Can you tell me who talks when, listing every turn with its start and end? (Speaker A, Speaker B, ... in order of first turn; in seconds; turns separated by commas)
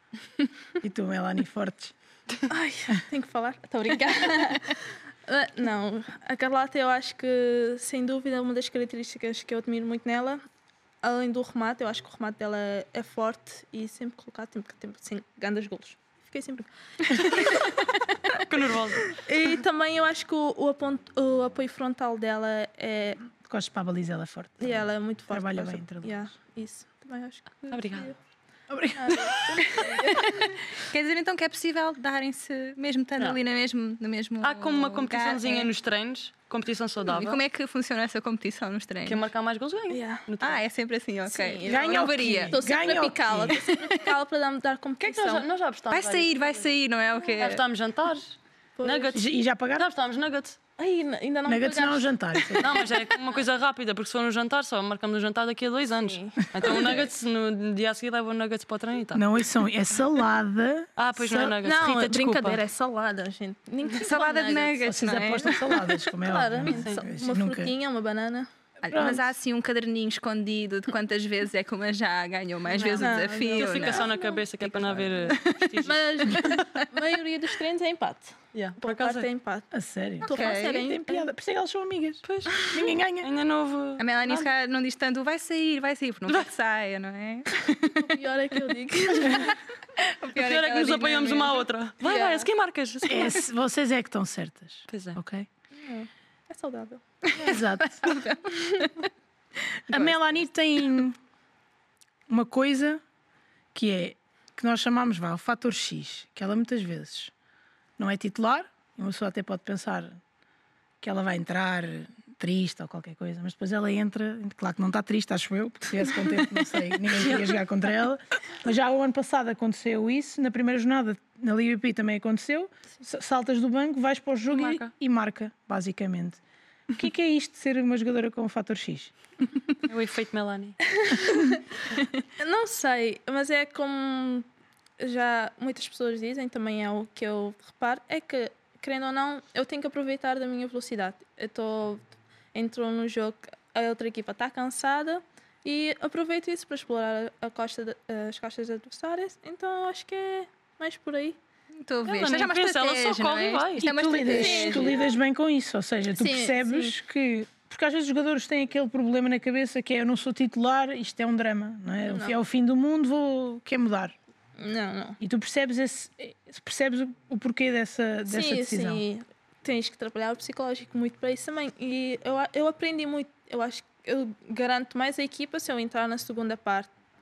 Speaker A: 0.8-1.9, Speaker B: 2.5-10.4, Speaker B: 11.0-18.3, Speaker C: 18.4-19.2, Speaker B: 19.1-23.2, Speaker A: 23.4-26.2, Speaker B: 24.6-28.1, Speaker C: 27.7-28.1, Speaker A: 28.7-29.6, Speaker B: 28.9-30.5, Speaker D: 29.7-35.7, Speaker C: 34.4-37.4, Speaker D: 37.0-39.2, Speaker C: 39.0-40.6, Speaker B: 39.9-40.2, Speaker D: 40.4-42.6, Speaker B: 41.3-45.5, Speaker A: 41.6-43.6, Speaker C: 45.0-46.6, Speaker D: 45.9-47.6, Speaker C: 47.4-50.6, Speaker B: 48.8-49.2, Speaker A: 49.1-49.9, Speaker B: 50.8-52.9, Speaker A: 51.5-52.7, Speaker C: 52.6-59.2, Speaker B: 56.0-57.1, Speaker A: 59.1-61.6, Speaker C: 61.0-62.6, Speaker B: 61.6-65.1, Speaker D: 64.0-65.9, Speaker A: 64.8-67.7, Speaker B: 66.2-68.5, Speaker C: 66.7-67.0, Speaker D: 68.8-74.1, Speaker A: 68.9-69.2, Speaker B: 72.7-74.4, Speaker C: 72.8-76.7, Speaker D: 74.6-75.8, Speaker B: 75.8-79.7, Speaker D: 76.3-76.8, Speaker C: 78.5-79.3, Speaker A: 79.7-83.3, Speaker B: 80.2-81.3, Speaker D: 80.2-80.8, Speaker C: 82.2-84.5, Speaker D: 84.0-88.0, Speaker B: 88.0-89.5, Speaker D: 89.2-89.5, Speaker D: 90.2-91.6, Speaker C: 90.3-93.4, Speaker B: 92.0-92.5, Speaker A: 93.0-95.5, Speaker C: 94.9-95.2, Speaker B: 95.7-97.0, Speaker D: 97.3-98.9, Speaker A: 97.3-98.2, Speaker D: 99.9-100.4, Speaker A: 99.9-101.2, Speaker A: 102.3-103.0, Speaker A: 103.7-107.3, Speaker A: 108.0-110.2, Speaker A: 111.0-126.4, Speaker C: 124.5-124.9, Speaker A: 126.9-129.1, Speaker C: 129.8-130.8, Speaker B: 131.0-131.6, Speaker B: 132.4-134.5, Speaker B: 135.0-151.4, Speaker D: 151.8-155.0, Speaker C: 152.1-153.9, Speaker A: 153.8-164.1, Speaker B: 154.2-155.2, Speaker B: 156.2-156.9, Speaker B: 162.1-162.4, Speaker B: 164.6-165.2, Speaker A: 165.2-169.0, Speaker B: 168.3-176.9